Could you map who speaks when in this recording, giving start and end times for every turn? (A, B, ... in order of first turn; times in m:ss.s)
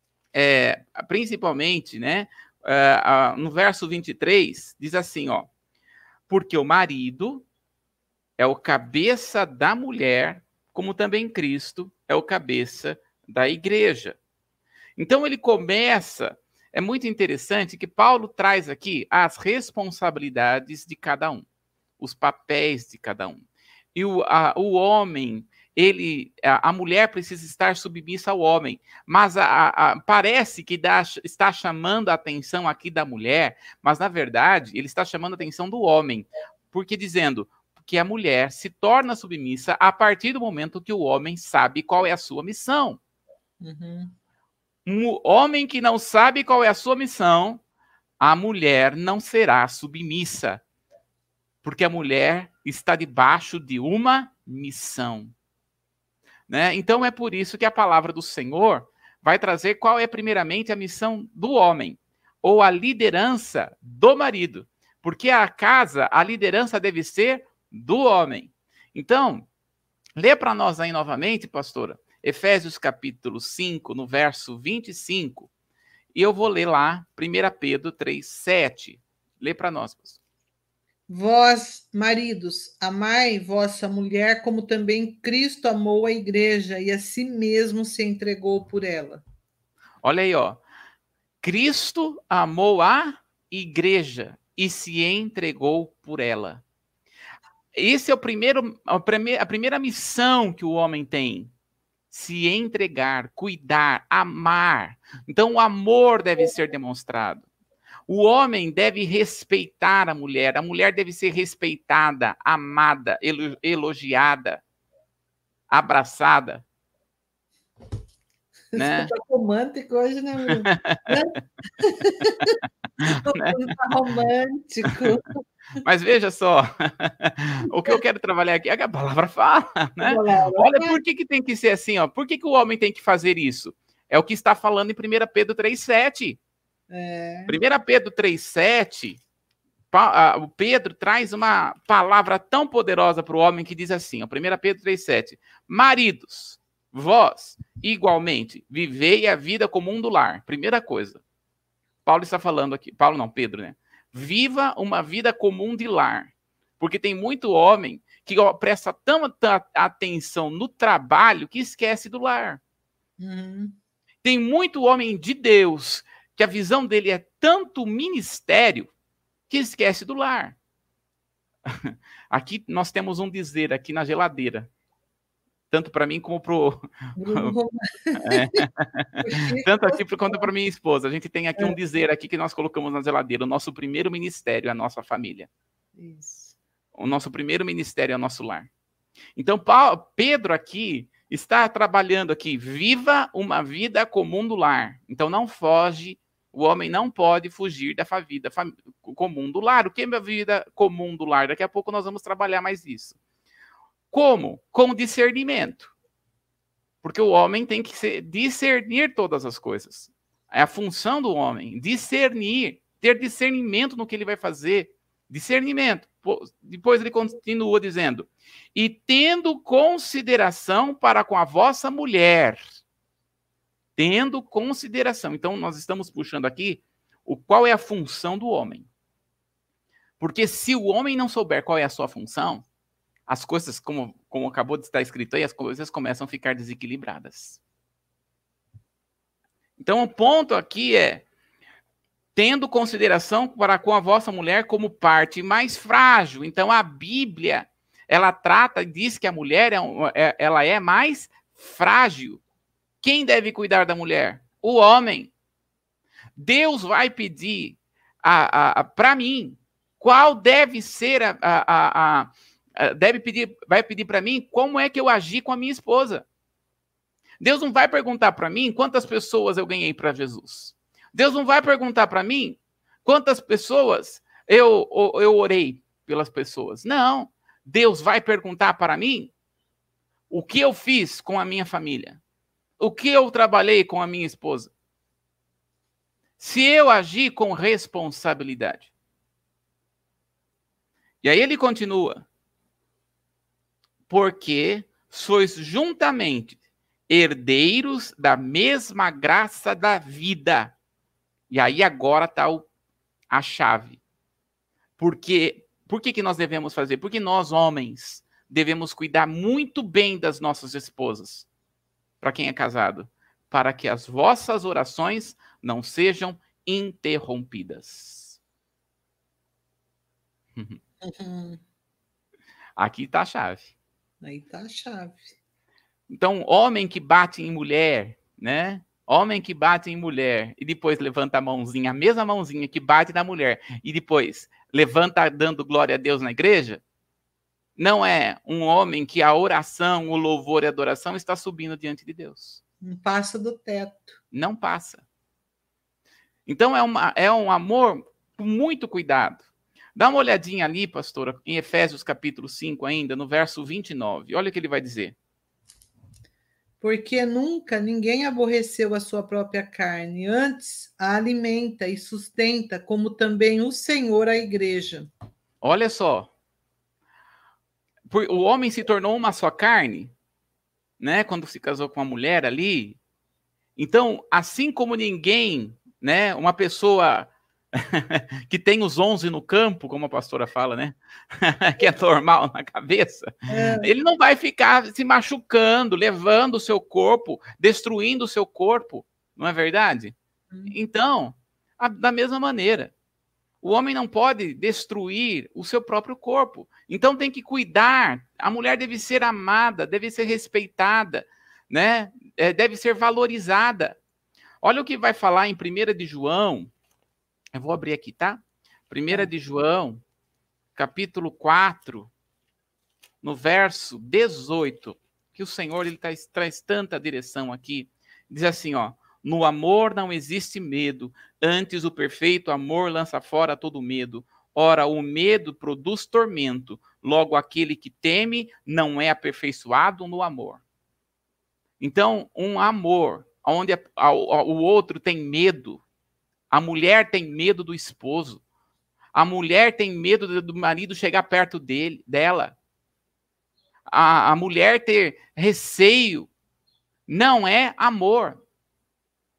0:00.3-0:05.5 A
0:06.3-0:07.4 A
0:08.4-0:14.2 A
0:15.0-0:21.4 A
0:22.0-0:43.0 A
0:43.6-0:44.1 B
0:44.8-0:47.6 A
0:48.2-0:50.6 A
0:51.6-0:55.3 A
0:56.5-1:09.5 A
1:10.2-1:15.5 A
1:16.1-1:20.2 A
1:21.1-1:29.2 B
1:30.0-1:30.6 A
1:31.4-1:36.6 A
1:37.7-1:41.5 A
1:42.1-1:47.5 A
1:48.1-1:54.6 A
1:55.7-1:56.6 A
1:58.7-2:05.4 B
1:58.8-1:59.1 A
2:00.6-2:01.2 A
2:03.0-2:03.5 A
2:05.8-2:16.4 A
2:10.0-2:11.0 B
2:16.9-2:17.6 B
2:17.5-2:19.2 A
2:19.9-2:31.2 A
2:32.0-2:42.6 A
2:43.2-2:43.8 B
2:44.2-2:48.9 A
2:49.5-2:50.6 A
2:51.6-2:54.7 A
2:55.7-2:57.5 A
2:57.2-2:58.7 B
2:58.2-3:05.5 A
2:59.2-3:00.5 B
3:06.0-3:06.6 B
3:06.9-3:08.7 A
3:09.4-3:23.2 A
3:24.1-3:25.9 A
3:27.0-3:42.6 A
3:44.0-3:48.9 A
3:50.2-3:52.6 A
3:53.3-3:57.6 A
3:59.8-4:01.2 A
4:02.3-4:12.4 A
4:13.0-4:15.3 A
4:16.4-4:26.2 A
4:27.4-4:39.3 A
4:40.3-4:42.2 A
4:42.8-4:44.7 A
4:46.4-4:48.9 A
4:51.2-4:52.2 A
4:54.1-4:56.6 A
4:57.1-5:00.8 A
5:01.5-5:02.7 A
5:03.3-5:04.0 A
5:05.0-5:11.5 A
5:12.2-5:18.4 A
5:21.0-5:21.6 B
5:22.8-5:23.7 A
5:24.2-5:25.3 B
5:26.1-5:36.8 A
5:37.8-5:42.6 A
5:42.8-5:44.2 B
5:44.3-5:45.0 A
5:46.4-5:55.2 A
5:56.8-6:05.1 B
6:05.6-6:06.3 A
6:08.1-6:10.1 A
6:11.0-6:13.0 A
6:13.8-6:23.3 A
6:23.5-6:23.9 B
6:23.8-6:30.1 A
6:30.5-6:30.8 B
6:30.7-6:32.9 A
6:33.6-6:44.0 A
6:44.6-6:46.7 A
6:47.5-6:50.0 A
6:50.8-6:52.1 A
6:53.2-7:10.6 A
7:11.8-7:15.8 A
7:16.5-7:18.4 A
7:19.1-7:22.5 A
7:23.9-7:26.3 A
7:27.1-7:28.4 A